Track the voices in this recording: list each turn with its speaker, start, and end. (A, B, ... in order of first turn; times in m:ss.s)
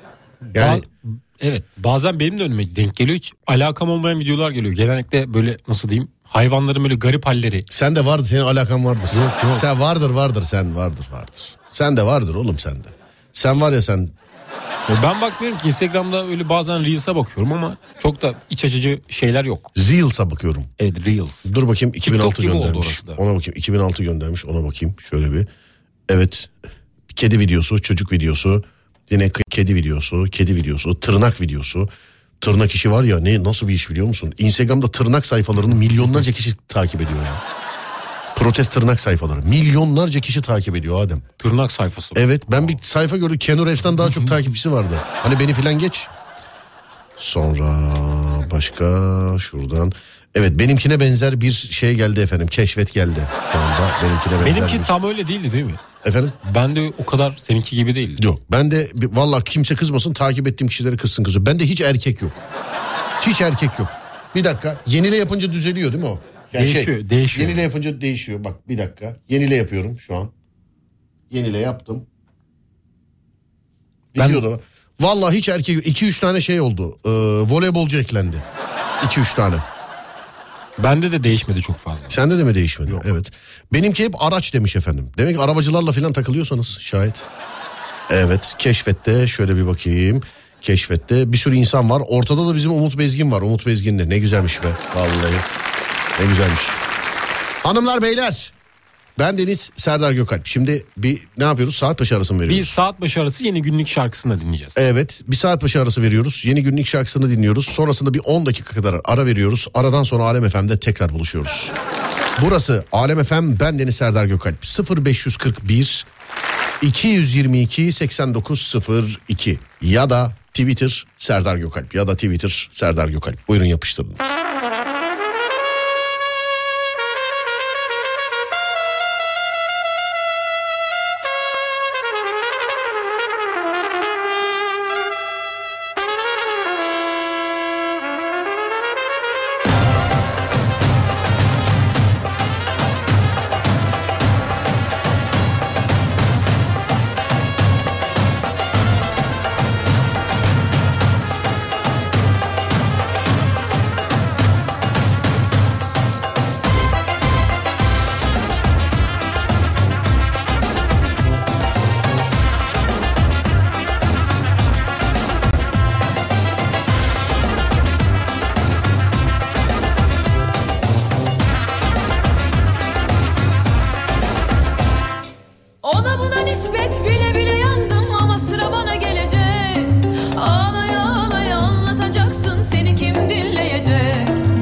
0:00.5-0:07.7 A
0:00.5-0:00.8 B
0:07.7-0:14.1 B
0:09.1-0:09.7 A
0:14.9-0:19.7 A
0:19.8-0:20.7 B
0:20.8-0:23.2 A
0:21.4-0:25.5 B
0:26.1-0:26.5 B
0:27.1-0:31.9 B
0:32.4-0:37.4 B
0:38.4-0:41.3 B
0:41.4-0:42.7 A
0:42.2-0:46.1 B
0:44.1-0:44.3 A
0:47.2-0:55.0 B
0:54.4-0:55.8 A
0:56.0-0:56.4 B
0:56.4-0:58.2 A
0:58.2-1:02.4 B
1:03.2-1:10.3 B
1:06.5-1:07.7 A
1:11.3-1:12.1 B
1:14.1-1:18.4 B
1:14.2-1:14.5 A
1:19.0-1:19.6 B
1:20.8-1:22.2 A
1:22.1-1:27.3 B
1:28.1-1:35.5 B
1:36.2-1:36.8 B
1:37.6-1:38.5 B
1:39.2-1:42.8 B
1:42.5-1:44.8 A
1:44.8-1:51.7 B
1:52.4-1:56.1 B
1:56.8-2:04.2 B
2:55.8-3:04.4 C